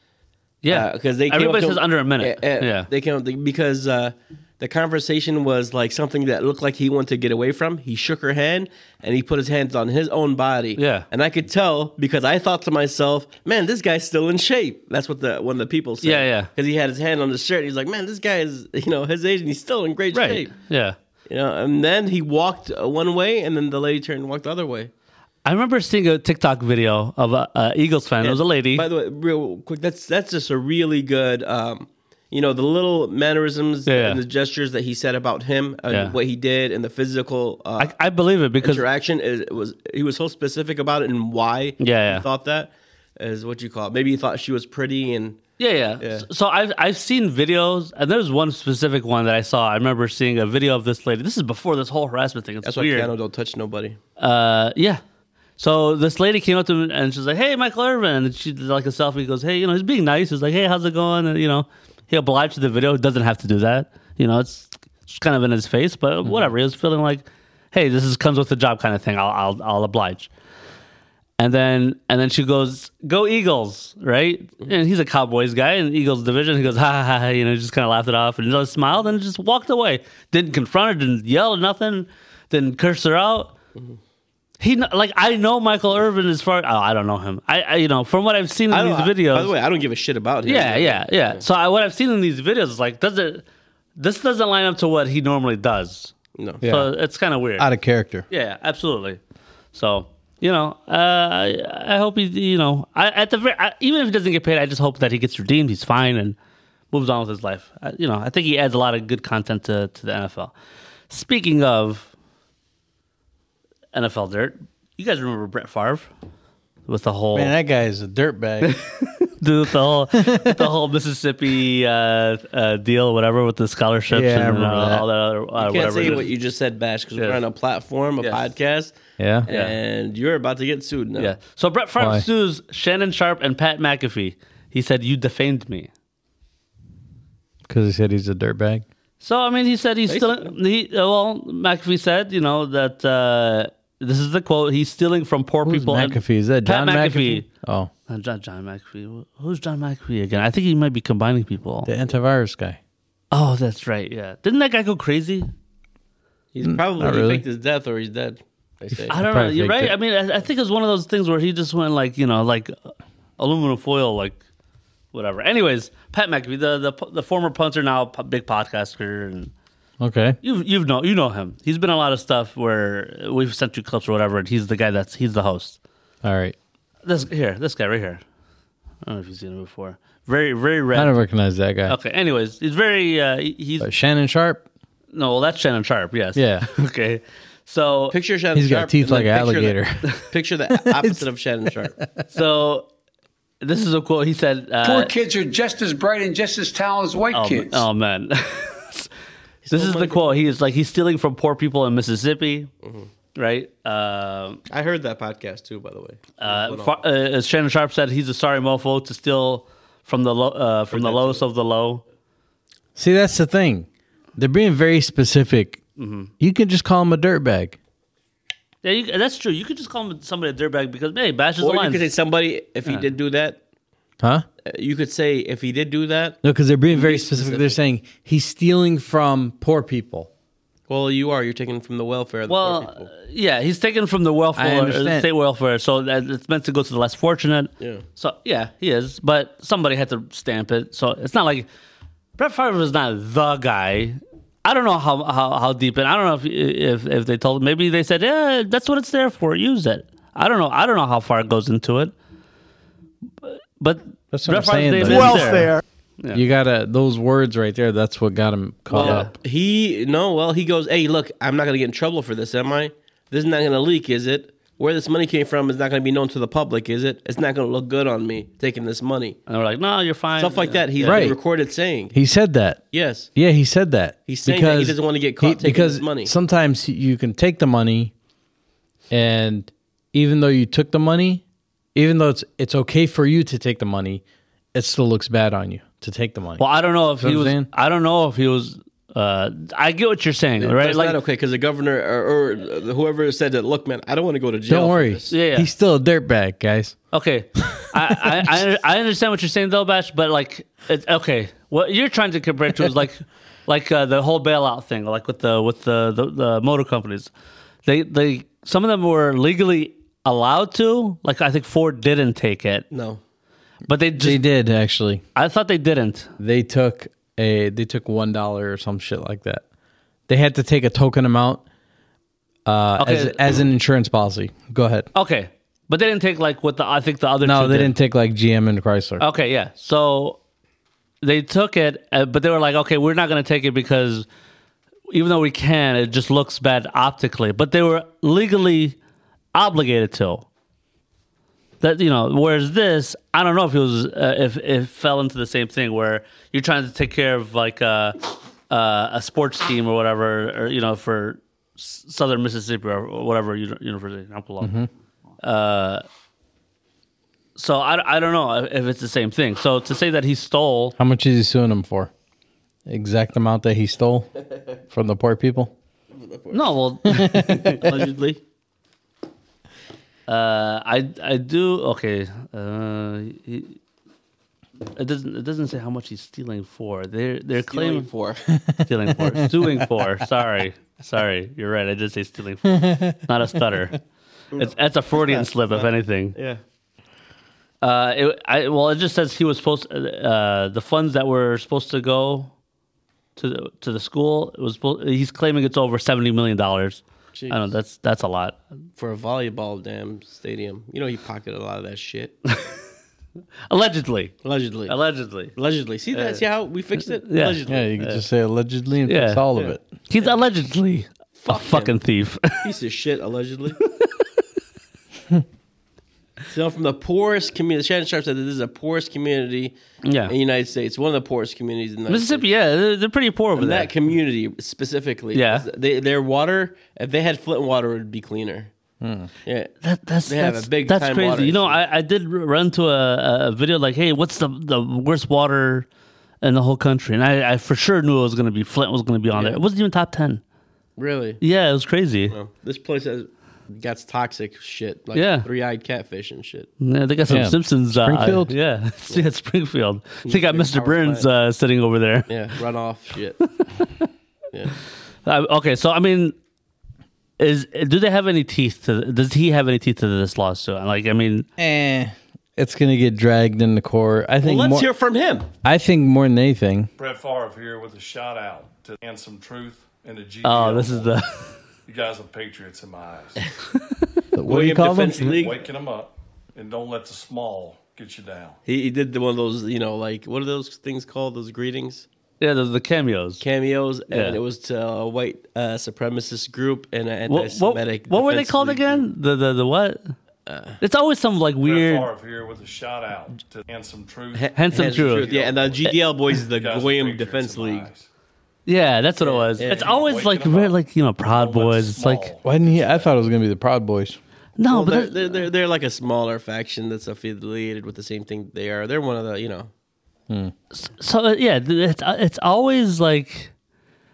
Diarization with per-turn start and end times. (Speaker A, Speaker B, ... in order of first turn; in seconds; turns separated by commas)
Speaker A: 0.6-2.9, Speaker B: 0.7-20.5, Speaker A: 10.8-11.1, Speaker A: 16.0-16.5, Speaker A: 20.1-20.9, Speaker B: 21.3-24.9, Speaker A: 25.4-28.8, Speaker B: 28.2-37.9, Speaker A: 33.9-34.2, Speaker A: 35.9-36.1, Speaker A: 37.8-38.8, Speaker B: 38.6-45.4, Speaker A: 41.8-42.3, Speaker A: 45.6-53.1, Speaker B: 46.0-46.3, Speaker B: 52.6-54.0, Speaker A: 54.2-55.0, Speaker A: 55.6-70.3, Speaker A: 71.4-83.5, Speaker A: 84.6-89.5, Speaker B: 88.7-91.4, Speaker A: 90.5-93.4, Speaker A: 94.0-97.7, Speaker B: 96.4-96.6, Speaker C: 96.6-96.9, Speaker C: 97.6-98.3, Speaker A: 98.3-99.2, Speaker A: 99.7-106.4, Speaker A: 106.9-110.5, Speaker A: 111.1-112.1, Speaker A: 113.9-116.1, Speaker A: 116.9-117.5, Speaker C: 117.3-118.8, Speaker A: 118.6-126.3, Speaker C: 120.2-120.7, Speaker C: 124.1-125.1, Speaker B: 125.6-128.9, Speaker C: 129.2-129.5, Speaker B: 129.4-131.3, Speaker A: 129.5-129.7, Speaker A: 131.2-135.9, Speaker C: 132.0-132.3, Speaker C: 137.7-138.8, Speaker A: 139.2-147.5, Speaker B: 140.1-140.5, Speaker C: 145.6-147.9, Speaker A: 148.1-151.9, Speaker C: 151.8-152.8, Speaker A: 153.3-155.5, Speaker B: 156.5-159.2, Speaker C: 156.6-157.4, Speaker C: 158.9-159.9, Speaker A: 159.1-164.4, Speaker A: 165.1-169.5, Speaker C: 170.0-170.4, Speaker A: 170.4-175.8, Speaker C: 176.2-176.6, Speaker A: 177.0-178.2, Speaker A: 179.0-181.2, Speaker C: 180.9-181.9, Speaker A: 181.9-183.9, Speaker C: 183.8-184.7, Speaker A: 185.1-188.1, Speaker C: 186.3-186.7, Speaker B: 188.1-192.0, Speaker C: 188.5-190.1, Speaker C: 190.7-191.2, Speaker A: 192.3-192.9, Speaker A: 193.6-195.2, Speaker D: 194.8-197.9, Speaker A: 197.3-199.1, Speaker B: 199.6-200.5, Speaker A: 199.7-202.7, Speaker B: 202.8-203.1, Speaker A: 203.3-204.6, Speaker B: 204.7-207.0, Speaker A: 206.4-212.0, Speaker B: 210.9-211.4, Speaker C: 212.9-215.8, Speaker A: 216.0-216.3, Speaker C: 216.4-217.8, Speaker A: 218.8-222.1, Speaker B: 221.6-223.6, Speaker B: 224.7-226.4, Speaker C: 226.4-230.3, Speaker B: 226.9-227.8, Speaker B: 230.9-233.1, Speaker A: 232.5-241.7, Speaker C: 234.6-235.3, Speaker A: 242.4-252.1, Speaker A: 253.4-256.4, Speaker C: 254.3-255.8, Speaker C: 256.3-259.3, Speaker A: 258.9-259.3, Speaker B: 258.9-269.4, Speaker A: 269.5-271.3, Speaker B: 270.4-272.1, Speaker C: 271.0-271.4, Speaker C: 272.1-272.8, Speaker B: 272.9-273.3, Speaker C: 273.3-278.1, Speaker B: 274.3-276.3, Speaker C: 279.1-281.4, Speaker C: 281.9-284.2, Speaker C: 284.7-286.6, Speaker A: 286.6-291.2, Speaker C: 287.2-287.7, Speaker B: 290.6-295.3, Speaker C: 294.7-297.0, Speaker A: 295.3-295.7, Speaker A: 297.1-307.3, Speaker A: 307.8-312.9, Speaker B: 312.9-313.2, Speaker A: 313.9-314.4, Speaker C: 314.1-315.2, Speaker A: 315.3-316.3, Speaker C: 316.4-319.6, Speaker C: 320.3-321.6, Speaker C: 322.6-325.1, Speaker A: 323.0-323.4, Speaker A: 325.1-327.9, Speaker C: 327.4-329.2, Speaker A: 329.2-330.4, Speaker A: 331.2-334.3, Speaker A: 335.1-338.9, Speaker A: 339.5-340.5, Speaker A: 341.8-348.2, Speaker A: 348.7-354.7, Speaker C: 354.6-354.9, Speaker A: 355.4-356.0, Speaker A: 357.6-360.9, Speaker C: 361.0-362.1, Speaker C: 362.9-364.3, Speaker C: 364.9-365.7, Speaker B: 366.1-366.6, Speaker A: 366.5-367.9, Speaker C: 367.1-367.8, Speaker B: 367.7-368.4, Speaker A: 370.3-373.8, Speaker A: 374.9-378.1, Speaker B: 377.6-378.4, Speaker C: 378.5-379.9, Speaker A: 378.8-384.0, Speaker C: 382.6-383.3, Speaker B: 384.5-386.6, Speaker A: 384.6-386.4, Speaker A: 387.8-392.5, Speaker A: 393.4-398.6, Speaker B: 397.3-397.6, Speaker B: 399.0-402.4, Speaker A: 403.7-404.4, Speaker B: 404.4-405.0, Speaker A: 404.9-405.6, Speaker B: 405.6-407.9, Speaker A: 406.1-406.4, Speaker A: 407.2-408.2, Speaker C: 407.6-409.8, Speaker A: 409.1-409.4, Speaker B: 409.6-410.3, Speaker A: 410.1-412.7, Speaker B: 411.4-411.9, Speaker B: 412.6-413.8, Speaker B: 416.5-419.8, Speaker A: 420.0-420.3, Speaker B: 420.3-422.4, Speaker A: 422.1-423.9, Speaker B: 423.6-428.7, Speaker A: 425.3-425.6, Speaker C: 429.0-429.3, Speaker B: 429.4-429.7, Speaker A: 429.8-435.9, Speaker B: 430.3-431.8, Speaker A: 436.4-440.4, Speaker B: 439.3-439.6, Speaker B: 441.0-441.4, Speaker A: 441.4-442.3, Speaker B: 442.3-446.7, Speaker A: 445.1-445.5, Speaker A: 446.8-452.3, Speaker C: 447.3-448.5, Speaker B: 450.2-451.3, Speaker B: 452.3-453.4, Speaker A: 455.3-456.3, Speaker A: 457.4-461.5, Speaker C: 461.6-464.9, Speaker B: 464.4-465.5, Speaker C: 465.6-466.9, Speaker E: 467.0-471.1, Speaker A: 470.4-471.4, Speaker E: 471.9-473.4, Speaker C: 474.3-475.4, Speaker B: 474.5-475.6, Speaker E: 475.0-478.6, Speaker B: 478.6-482.1, Speaker A: 482.4-483.4, Speaker B: 483.4-489.1, Speaker A: 484.1-484.4, Speaker A: 487.3-490.1, Speaker B: 490.5-490.8, Speaker A: 490.8-492.1, Speaker E: 491.6-498.1, Speaker B: 494.3-497.9, Speaker A: 494.6-495.3, Speaker A: 498.6-502.3, Speaker B: 499.2-499.9, Speaker E: 499.6-503.1, Speaker C: 502.4-504.2, Speaker A: 504.6-505.4, Speaker B: 504.7-509.7, Speaker A: 510.7-513.5